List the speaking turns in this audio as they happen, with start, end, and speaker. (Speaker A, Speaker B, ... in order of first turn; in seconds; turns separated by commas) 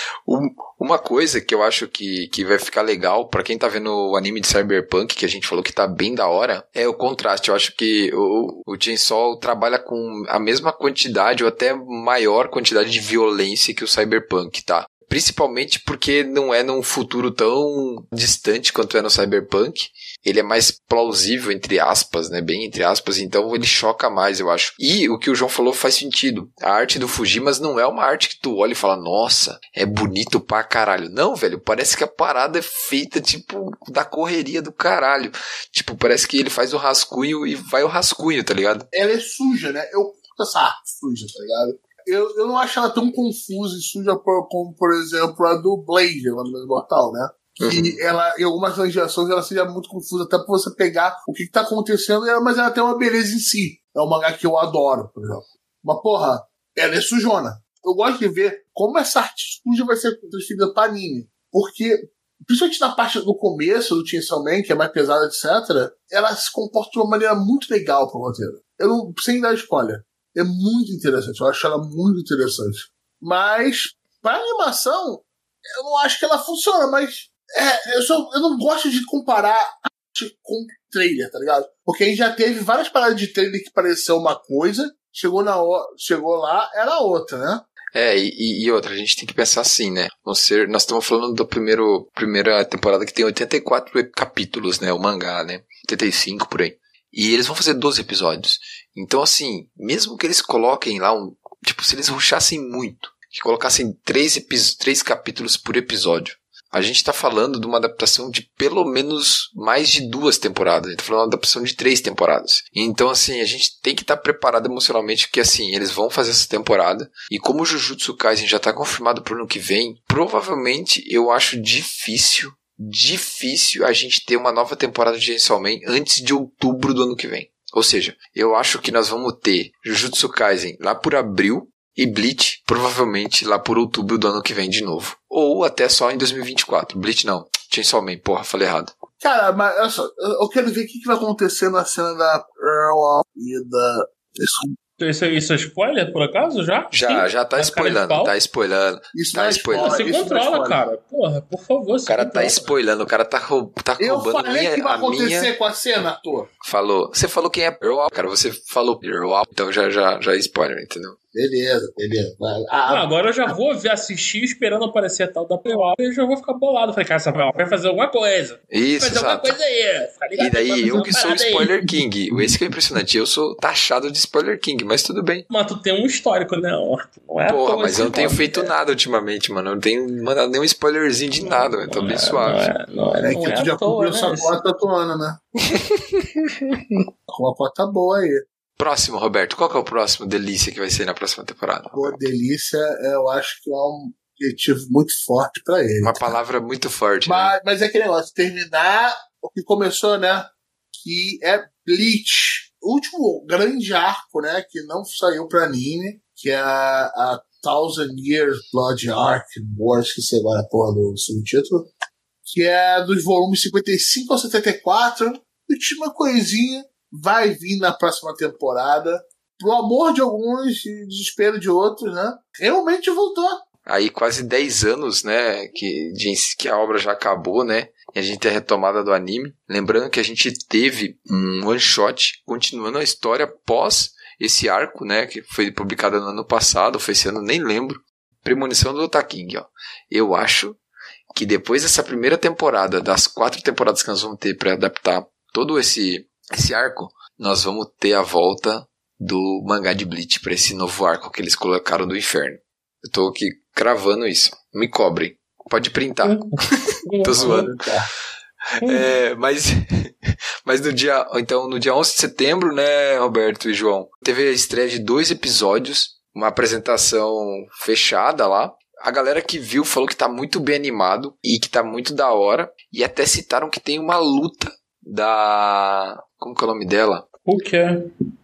Speaker A: 0.3-38.9, Speaker B: 38.9-87.6, Speaker A: 47.6-48.0, Speaker A: 87.9-138.9, Speaker B: 139.2-144.7, Speaker C: 145.0-148.3, Speaker A: 146.9-150.1, Speaker B: 149.1-150.8, Speaker C: 149.8-152.7, Speaker A: 152.1-155.5, Speaker B: 154.0-156.5, Speaker A: 156.6-161.2, Speaker B: 161.3-163.1, Speaker C: 162.9-172.0, Speaker A: 168.7-169.6, Speaker A: 170.4-175.5, Speaker C: 175.5-178.7, Speaker A: 177.5-182.7, Speaker C: 181.4-184.5, Speaker B: 183.2-185.4, Speaker B: 187.3-188.4, Speaker A: 188.8-192.2, Speaker B: 191.9-196.3, Speaker A: 196.0-197.5, Speaker B: 197.3-211.9, Speaker B: 212.5-223.6, Speaker A: 223.8-240.8, Speaker A: 241.3-256.5, Speaker C: 256.2-257.7, Speaker A: 257.2-257.8, Speaker B: 257.3-258.1, Speaker A: 258.8-277.3, Speaker C: 277.5-278.1